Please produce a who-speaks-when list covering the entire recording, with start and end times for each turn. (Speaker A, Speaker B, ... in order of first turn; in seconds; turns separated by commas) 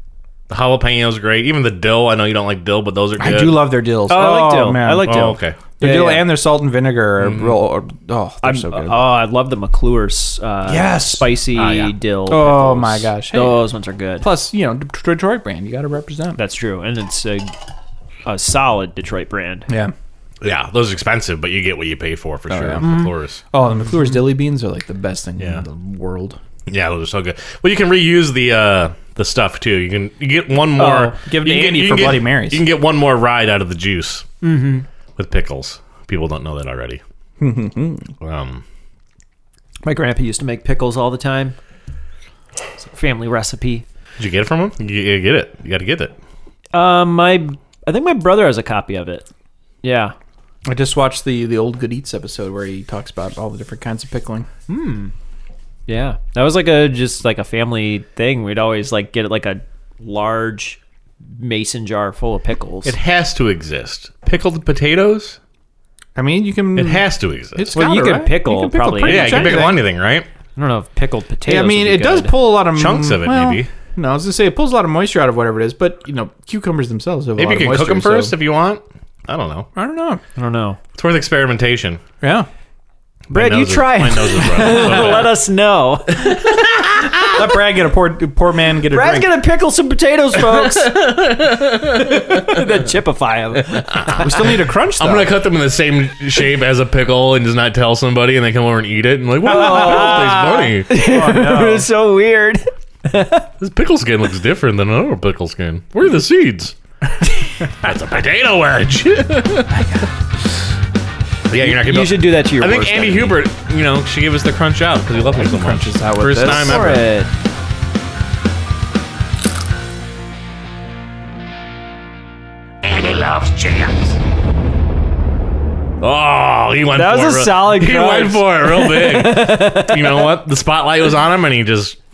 Speaker A: 0.5-3.8, Speaker B: 3.2-5.2, Speaker C: 4.1-6.3, Speaker A: 5.0-5.6, Speaker B: 5.8-9.1, Speaker A: 7.2-7.6, Speaker C: 8.4-14.3, Speaker B: 10.7-11.4, Speaker A: 11.6-12.0, Speaker B: 12.3-16.4, Speaker C: 16.4-17.5, Speaker C: 18.2-19.7, Speaker B: 19.7-19.9, Speaker A: 20.4-23.4, Speaker B: 22.5-26.4, Speaker C: 22.8-23.1, Speaker A: 26.7-34.3, Speaker B: 30.8-32.6, Speaker C: 34.4-34.9, Speaker A: 35.2-37.0, Speaker B: 37.4-38.1, Speaker A: 38.2-38.6, Speaker C: 39.8-41.5, Speaker C: 42.8-43.9, Speaker A: 44.2-46.2, Speaker C: 46.7-49.3, Speaker C: 49.8-50.1, Speaker B: 50.7-54.5, Speaker C: 54.7-55.1, Speaker C: 55.9-60.8, Speaker C: 61.3-63.0, Speaker A: 62.9-65.4, Speaker B: 66.2-69.9, Speaker A: 66.8-67.8, Speaker C: 67.8-69.7, Speaker A: 69.0-70.3, Speaker C: 70.6-72.3, Speaker B: 71.5-78.4, Speaker A: 72.5-73.7, Speaker A: 77.4-79.7, Speaker B: 79.8-80.2, Speaker C: 80.4-80.8, Speaker A: 81.0-82.0, Speaker B: 82.2-82.5, Speaker A: 83.3-85.3, Speaker C: 83.3-87.3, Speaker B: 87.3-89.3, Speaker C: 88.9-91.1, Speaker A: 90.5-92.6, Speaker C: 92.0-94.4, Speaker A: 93.7-100.9, Speaker B: 94.2-95.3, Speaker C: 99.4-103.5, Speaker B: 99.5-101.9, Speaker A: 103.6-106.8, Speaker A: 107.7-109.9, Speaker B: 109.7-110.1, Speaker A: 111.5-117.1, Speaker C: 111.6-113.4, Speaker B: 115.2-117.0, Speaker C: 116.4-117.3, Speaker A: 122.8-124.2, Speaker A: 126.0-132.0, Speaker C: 126.9-130.3